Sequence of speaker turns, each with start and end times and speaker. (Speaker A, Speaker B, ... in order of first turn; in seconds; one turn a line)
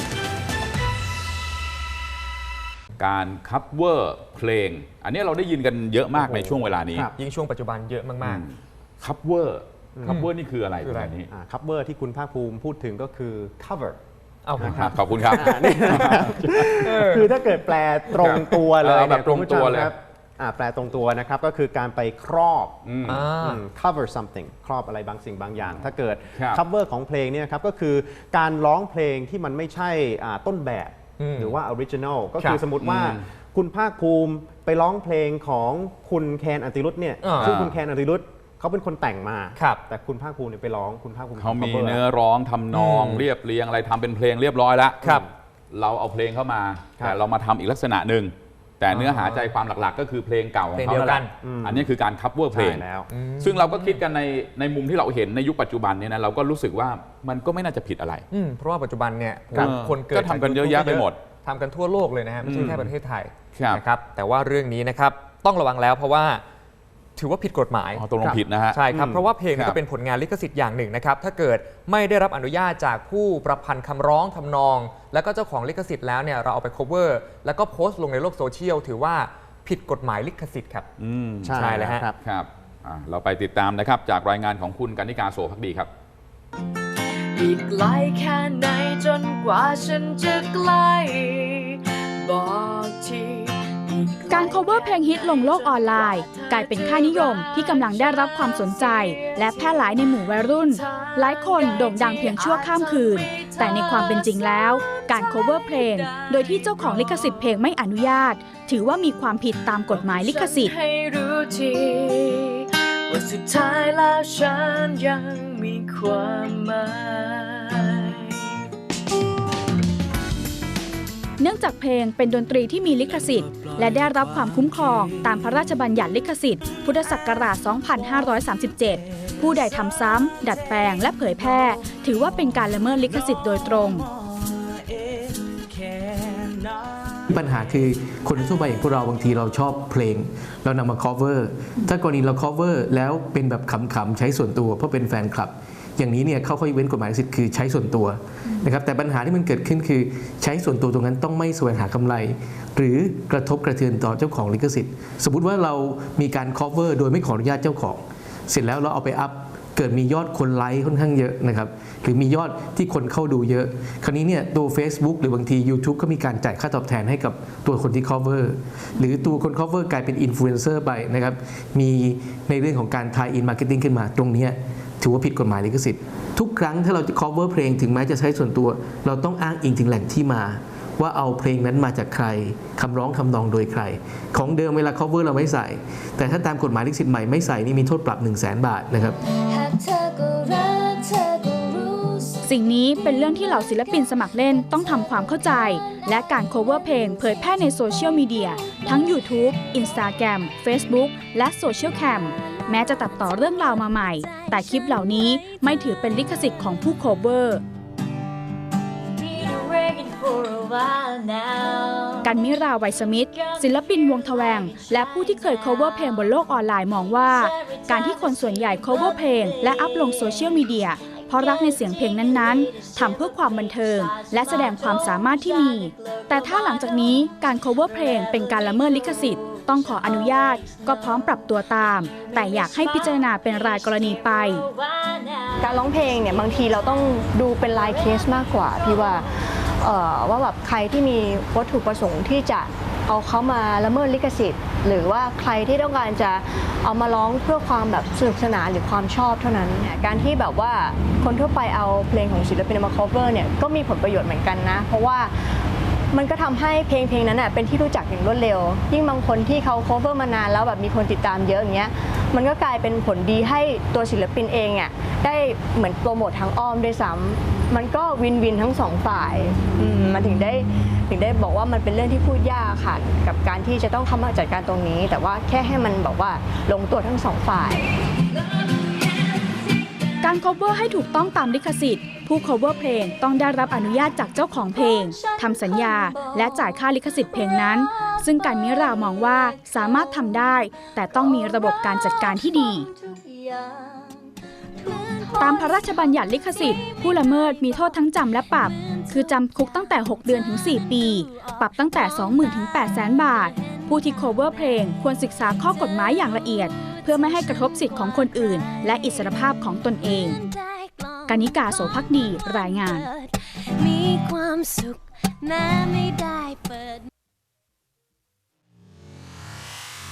Speaker A: 3.0-7.1
Speaker B: 6.1-7.1
Speaker C: 7.2-8.4
Speaker A: 8.2-11.3
Speaker C: 10.1-10.3
Speaker C: 10.8-11.2
Speaker B: 11.3-14.0
Speaker C: 14.4-17.3
Speaker B: 14.6-22.8
Speaker A: 14.6-16.4
Speaker A: 18.1-19.9
Speaker A: 22.8-23.3
Speaker C: 23.1-23.6
Speaker B: 23.4-42.0
Speaker A: 26.4-26.6
Speaker C: 31.2-31.6
Speaker A: 32.8-33.2
Speaker C: 37.2-37.6
Speaker A: 37.4-37.8
Speaker C: 39.6-39.8
Speaker A: 41.4-45.2
Speaker C: 42.7-43.3
Speaker A: 45.7-52.9
Speaker C: 48.9-49.5
Speaker C: 50.8-51.3
Speaker B: 51.4-52.0
Speaker B: 52.5-53.1
Speaker C: 53.1-54.0
Speaker A: 53.4-58.2
Speaker C: 58.3-66.4
Speaker A: 59.5-61.2
Speaker A: 62.4-62.9
Speaker A: 63.5-63.8
Speaker C: 67.2-80.9
Speaker A: 68.0-68.9
Speaker B: 68.9-69.3
Speaker A: 69.5-69.8
Speaker A: 81.0-85.9
Speaker B: 81.4-82.2
Speaker C: 81.6-82.1
Speaker D: 87.4-99.7
Speaker E: 94.3-110.7
Speaker D: 100.8-104.2
Speaker D: 106.1-107.0
Speaker D: 110.0-118.3
Speaker E: 121.4-134.1
Speaker F: 137.3-189.2
Speaker G: 189.5-192.3
Speaker E: 192.4-207.6
Speaker G: 203.1-206.4
Speaker G: 209.2-212.3
Speaker E: 212.2-234.7
Speaker G: 213.4-216.1
Speaker G: 217.3-226.9
Speaker G: 228.3-230.0
Speaker G: 230.6-231.0
Speaker G: 232.6-232.8
Speaker G: 234.5-235.4
Speaker H: 235.6-255.4
Speaker H: 256.1-277.9
Speaker E: 280.2-292.9
Speaker G: 285.1-286.8
Speaker G: 292.3-297.9
Speaker E: 295.4-310.4
Speaker G: 298.7-304.8
Speaker G: 305.5-309.6
Speaker G: 310.1-317.0
Speaker E: 311.3-313.1